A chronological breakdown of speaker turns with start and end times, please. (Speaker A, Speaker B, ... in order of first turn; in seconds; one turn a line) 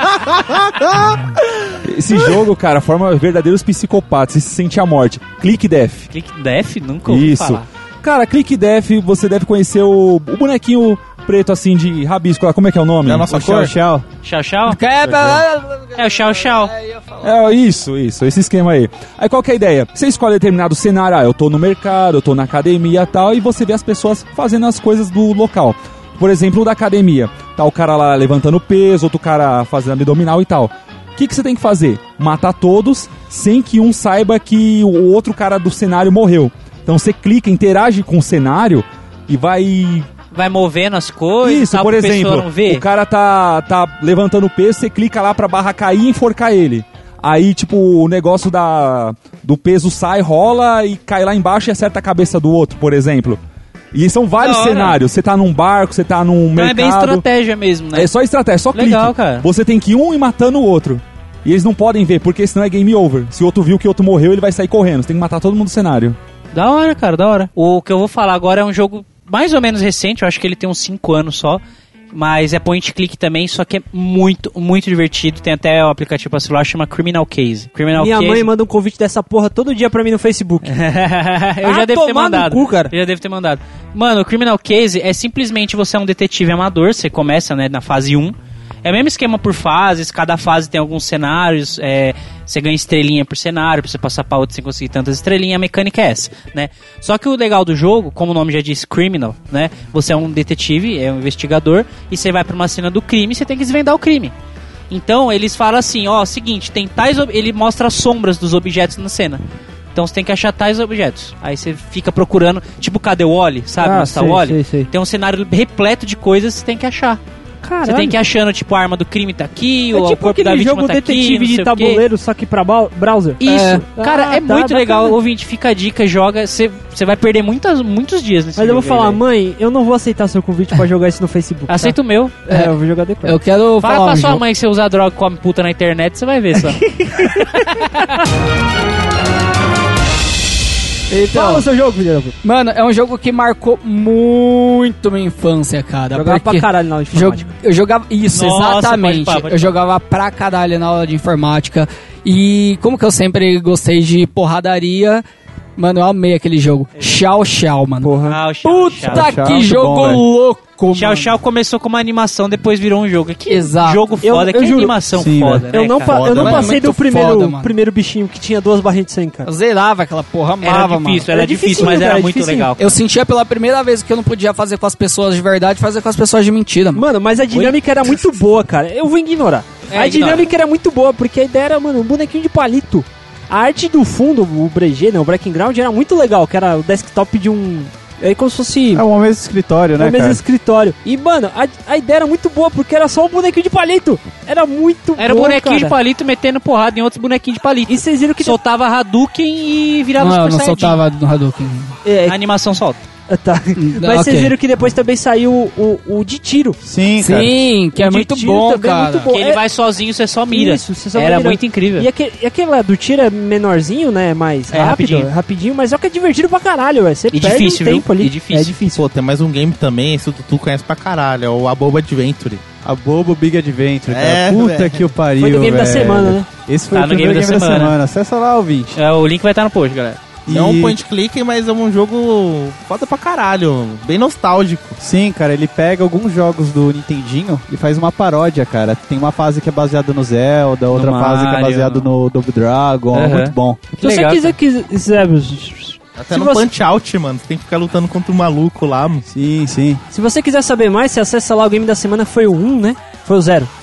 Speaker A: 1.8-6.1
Speaker B: 6.1-7.7
Speaker A: 7.1-13.3
Speaker C: 13.1-13.7
Speaker D: 13.2-14.1
Speaker B: 14.2-15.4
Speaker E: 14.7-17.4
Speaker B: 16.0-16.7
Speaker A: 17.2-40.1
Speaker B: 40.3-42.8
Speaker A: 41.4-53.4
Speaker A: 53.9-57.2
Speaker B: 54.4-55.0
Speaker B: 56.5-58.1
Speaker A: 57.9-66.2
Speaker B: 58.7-59.5
Speaker B: 66.5-71.6
Speaker B: 72.1-78.5
Speaker F: 78.0-80.7
Speaker B: 80.7-104.3
Speaker F: 81.6-82.9
Speaker B: 104.9-109.4
Speaker B: 109.9-117.2
Speaker F: 113.8-114.9
Speaker F: 117.6-118.2
Speaker B: 117.8-122.0
Speaker F: 119.9-125.2
Speaker B: 123.4-129.2
Speaker E: 123.4-123.8
Speaker F: 128.6-133.4
Speaker B: 131.7-132.4
Speaker E: 133.2-134.4
Speaker B: 133.8-137.9
Speaker F: 136.8-137.8
Speaker E: 141.1-141.7
Speaker F: 141.3-142.3
Speaker E: 142.4-155.2
Speaker F: 146.1-147.5
Speaker B: 148.3-149.8
Speaker E: 155.8-161.3
Speaker F: 158.0-158.4
Speaker B: 158.3-159.4
Speaker D: 159.0-160.3
Speaker B: 160.9-166.4
Speaker E: 163.5-164.0
Speaker F: 164.2-164.9
Speaker D: 165.1-166.7
Speaker F: 165.7-169.5
Speaker E: 166.2-167.7
Speaker E: 169.4-171.3
Speaker B: 170.6-173.0
Speaker F: 171.3-172.7
Speaker E: 172.8-177.0
Speaker F: 176.9-189.1
Speaker B: 179.9-180.5
Speaker D: 188.9-190.4
Speaker F: 190.0-195.9
Speaker B: 195.2-201.0
Speaker F: 197.9-198.6
Speaker E: 200.2-202.0
Speaker F: 202.1-202.4
Speaker B: 202.2-203.0
Speaker F: 203.3-206.8
Speaker E: 203.8-204.6
Speaker D: 206.8-207.6
Speaker E: 207.2-209.3
Speaker F: 208.0-209.6
Speaker B: 209.3-212.1
Speaker F: 210.5-219.1
Speaker B: 214.7-215.3
Speaker B: 217.3-218.8
Speaker C: 218.9-222.6
Speaker D: 222.8-229.0
Speaker C: 224.1-225.1
Speaker F: 225.4-226.5
Speaker B: 226.9-227.9
Speaker B: 228.9-230.2
Speaker D: 230.5-231.0
Speaker C: 230.5-235.0
Speaker D: 235.0-243.8
Speaker B: 240.9-242.1
Speaker B: 243.1-244.5
Speaker F: 244.0-246.7
Speaker C: 246.2-249.2
Speaker D: 249.3-250.0
Speaker F: 250.1-253.7